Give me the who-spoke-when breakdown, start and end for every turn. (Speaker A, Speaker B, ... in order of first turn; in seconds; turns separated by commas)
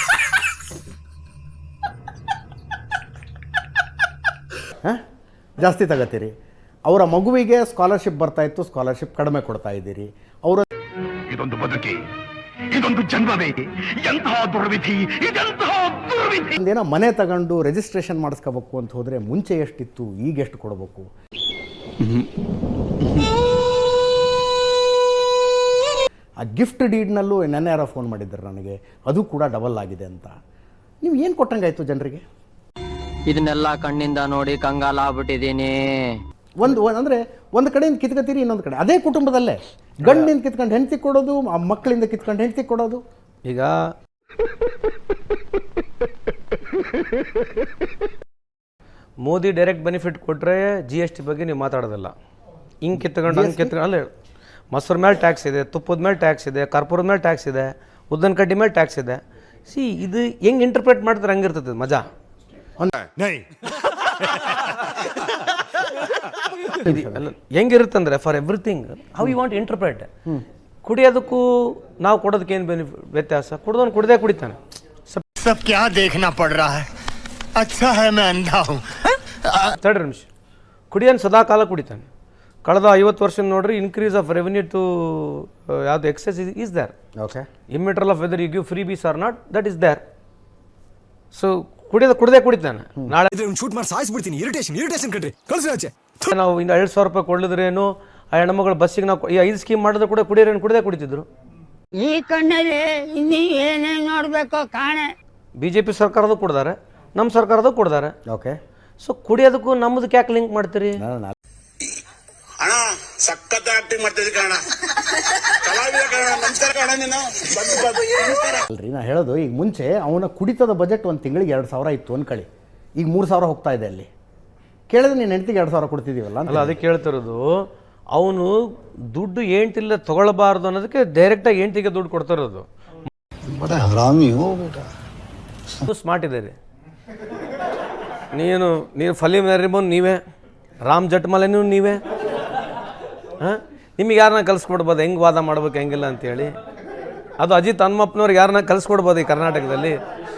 Speaker A: 5.6-6.3, Speaker A: 6.9-10.7, Speaker B: 11.3-11.9, Speaker B: 12.7-16.5, Speaker A: 16.6-21.1, Speaker A: 26.4-30.3, Speaker A: 31.0-32.2, Speaker C: 33.3-36.1, Speaker A: 36.6-43.0, Speaker D: 40.0-40.3, Speaker D: 43.5-43.7, Speaker D: 49.2-52.1, Speaker D: 52.8-54.1, Speaker A: 53.3-53.7, Speaker D: 54.7-62.0, Speaker A: 62.8-63.0, Speaker E: 63.2-63.5, Speaker A: 66.8-67.2, Speaker D: 66.8-70.1, Speaker D: 70.8-74.6, Speaker F: 75.3-76.9, Speaker F: 77.6-79.7, Speaker D: 79.8-80.3, Speaker D: 80.9-82.1, Speaker D: 82.7-86.9, Speaker A: 87.2-87.5, Speaker D: 87.7-90.0, Speaker D: 91.3-93.3, Speaker E: 93.3-96.3, Speaker D: 96.3-101.2, Speaker G: 101.9-105.1, Speaker D: 105.6-108.1, Speaker A: 108.3-108.6, Speaker D: 109.0-111.0, Speaker A: 111.0-111.3, Speaker H: 112.6-114.6, Speaker H: 115.6-118.6, Speaker A: 118.7-122.5, Speaker A: 123.0-124.1, Speaker A: 124.9-126.8, Speaker D: 126.5-127.4, Speaker D: 128.1-128.5, Speaker D: 129.1-132.7, Speaker B: 133.5-134.9, Speaker D: 135.9-136.6, Speaker D: 138.3-140.2, Speaker D: 140.9-142.0, Speaker D: 143.4-146.5, Speaker D: 147.4-149.9